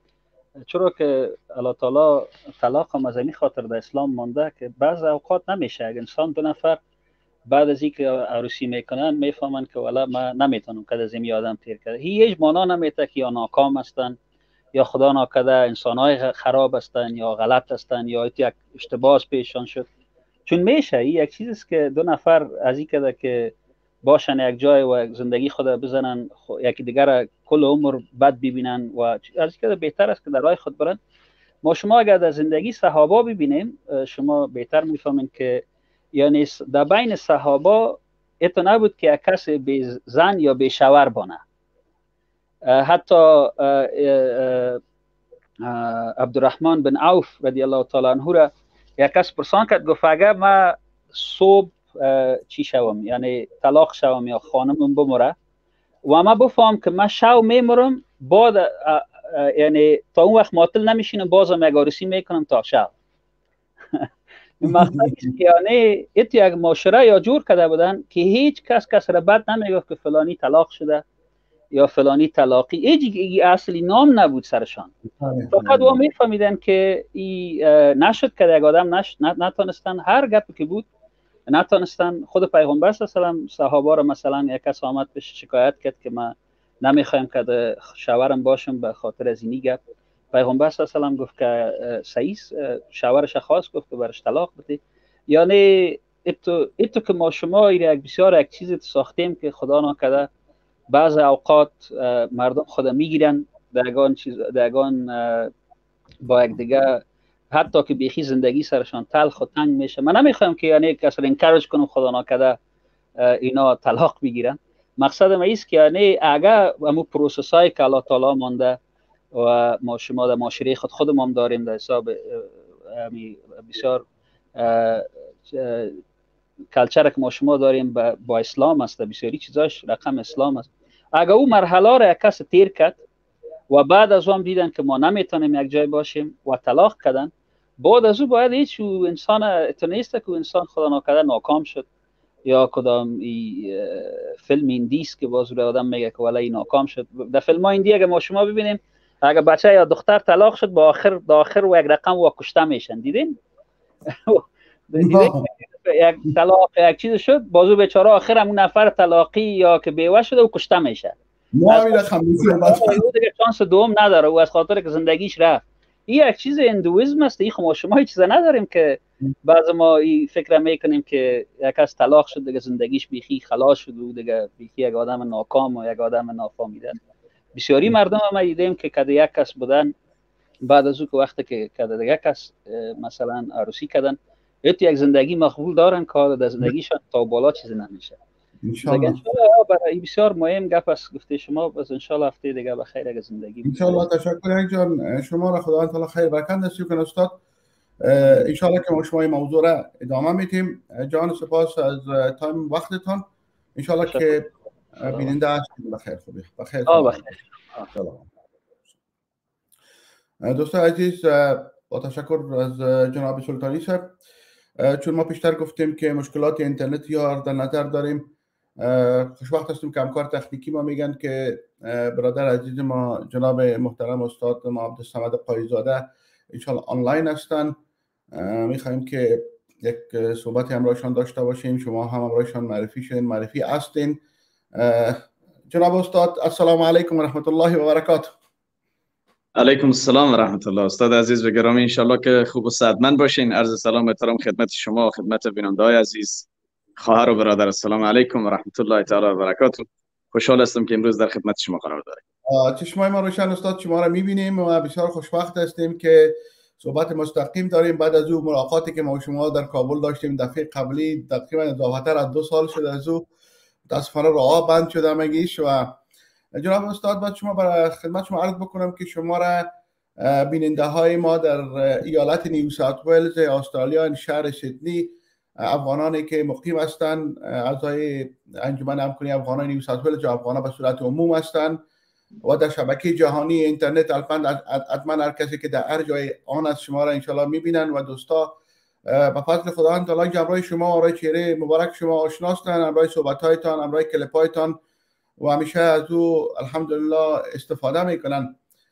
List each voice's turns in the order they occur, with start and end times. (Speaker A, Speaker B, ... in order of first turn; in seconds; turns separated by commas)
Speaker A: 0.6-6.8, Speaker A: 7.5-14.2, Speaker A: 14.7-19.9, Speaker A: 20.5-31.0, Speaker A: 31.6-41.4, Speaker A: 42.6-44.8, Speaker A: 45.6-55.4, Speaker A: 56.1-62.9, Speaker A: 64.6-71.0, Speaker B: 64.7-65.2, Speaker A: 71.7-74.9, Speaker B: 75.1-76.0, Speaker A: 75.5-80.9, Speaker A: 81.5-89.8, Speaker A: 90.3-100.3, Speaker A: 100.9-105.5, Speaker A: 106.2-112.6, Speaker A: 113.2-118.8, Speaker A: 119.3-124.0, Speaker A: 124.6-126.0, Speaker A: 126.7-133.0, Speaker A: 133.7-141.9, Speaker A: 142.5-153.4, Speaker A: 154.1-161.2, Speaker B: 155.0-155.5, Speaker B: 161.5-163.0, Speaker A: 161.7-177.0, Speaker A: 177.5-179.9, Speaker A: 180.6-188.2, Speaker B: 188.6-189.2, Speaker A: 188.8-194.0, Speaker B: 193.7-197.4, Speaker B: 198.0-203.2, Speaker B: 203.8-207.3, Speaker A: 206.9-207.9, Speaker B: 207.9-208.3, Speaker B: 210.4-214.1, Speaker B: 214.8-227.8, Speaker B: 228.3-234.2, Speaker B: 234.8-238.4, Speaker C: 239.6-246.5, Speaker C: 247.0-252.2, Speaker B: 252.5-263.3, Speaker B: 263.9-266.0, Speaker B: 266.6-269.7, Speaker B: 270.2-281.8, Speaker B: 282.4-288.6, Speaker B: 289.1-294.8, Speaker B: 295.4-298.6